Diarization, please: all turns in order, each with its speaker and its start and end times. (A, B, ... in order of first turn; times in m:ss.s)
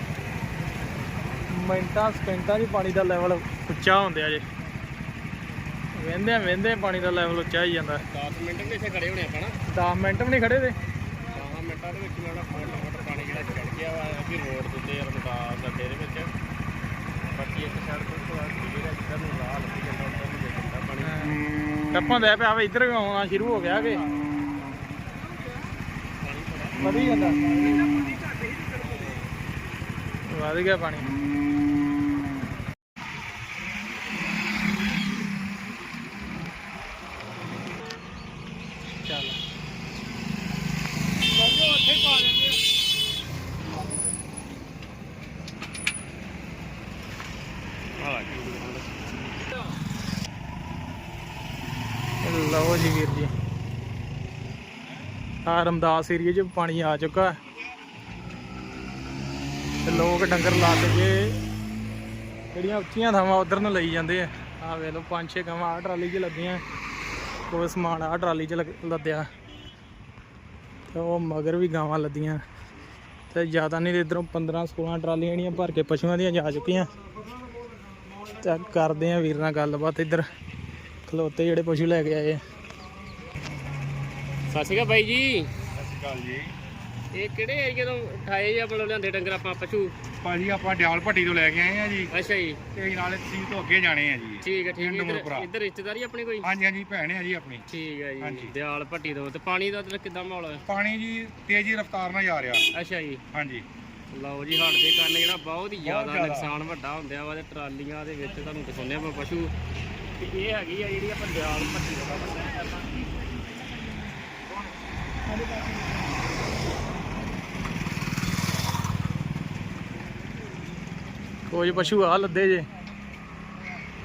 0:01.5-0:04.4 A
0:06.0-0:08.0 A
0:08.0-0:09.5 B
0:09.7-0:10.7 A
0:11.3-0:16.3 B
0:17.3-0:21.1 B
0:21.0-0:21.4 A
0:21.9-0:24.0 A
0:26.2-0:26.8 B
0:26.8-0:27.4 A
0:30.3-0:31.1 A
0:39.0-0:39.4 A
0:41.7-0:42.3 C
0:48.0-0:48.9 B
0:52.2-0:53.3 A
0:55.4-0:57.3 A
0:59.8-1:01.4 A
1:02.5-1:06.6 A
1:07.5-1:09.2 A
1:10.9-1:12.4 A
1:13.3-1:16.9 A
1:18.4-1:20.2 A
1:21.1-1:22.4 A
1:24.5-1:25.5 B
1:25.7-1:26.5 C
1:27.1-1:29.9 B
1:30.2-1:32.1 C
1:32.1-1:32.6 B
1:32.7-1:35.5 C
1:34.4-1:36.5 B
1:36.4-1:37.6 C
1:37.7-1:40.6 B
1:38.2-1:38.5 C
1:40.7-1:42.6 C
1:42.7-1:43.2 B
1:43.3-1:43.6 C
1:44.1-1:49.5 B
1:45.8-1:46.5 C
1:50.2-1:52.9 B
1:55.4-1:55.7 A
2:01.5-2:02.6 A